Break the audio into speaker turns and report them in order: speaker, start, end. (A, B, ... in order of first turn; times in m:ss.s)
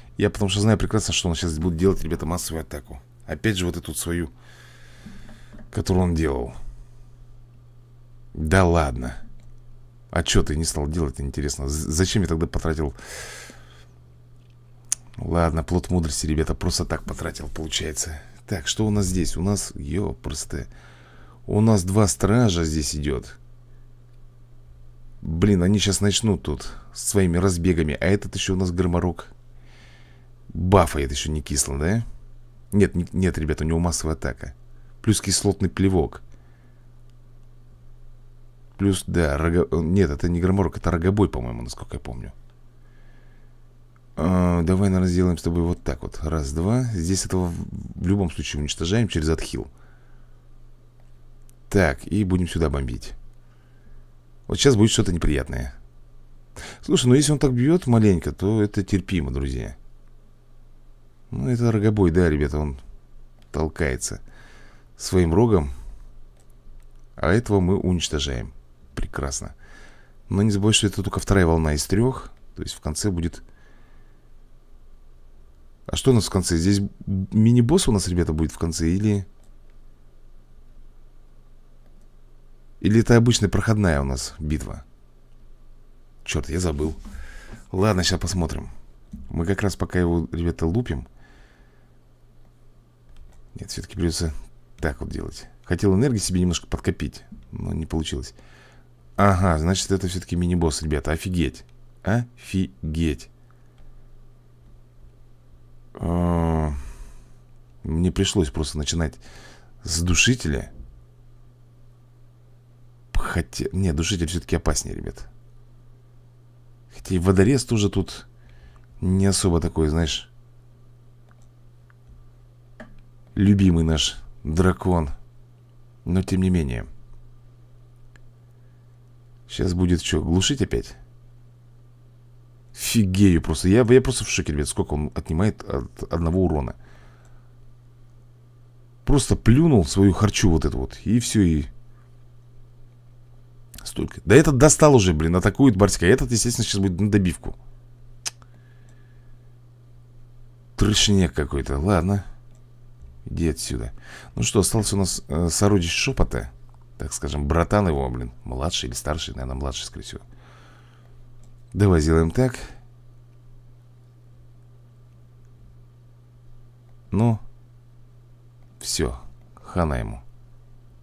0:00.2-0:04.3 A
0:05.7-0:06.6 A
0:08.4-0:09.2 A
0:10.1-0:13.0 A
0:15.2-0:20.7 A
0:21.5-0:23.4 A
0:25.2-0:29.3 A
0:30.5-0:32.1 A
0:32.7-0:36.2 A
0:38.8-0:42.3 A
0:44.2-0:49.7 A
0:51.7-0:53.2 A
0:54.5-0:55.8 A
0:56.8-0:59.8 A
1:01.3-1:02.8 A
1:03.5-1:04.2 A
1:05.0-1:05.7 A
1:07.2-1:09.6 A
1:10.3-1:13.4 A
1:15.9-1:19.3 A
1:22.8-1:24.8 A
1:26.2-1:27.0 A
1:27.7-1:28.7 A
1:29.3-1:31.1 A
1:33.6-1:38.4 A
1:39.2-1:43.3 A
1:46.0-1:46.8 A
1:47.8-1:49.2 A
1:49.8-1:50.7 A
1:53.1-1:55.3 A
1:56.9-1:58.3 A
1:59.0-2:00.3 A
2:03.4-2:05.1 A
2:06.0-2:06.9 A
2:09.5-2:11.0 A
2:12.7-2:16.8 A
2:19.0-2:21.7 A
2:23.8-2:27.6 A
2:30.8-2:32.3 A
2:33.3-2:40.2 A
2:41.7-2:42.7 A
2:47.1-2:47.4 A
2:48.8-2:50.2 A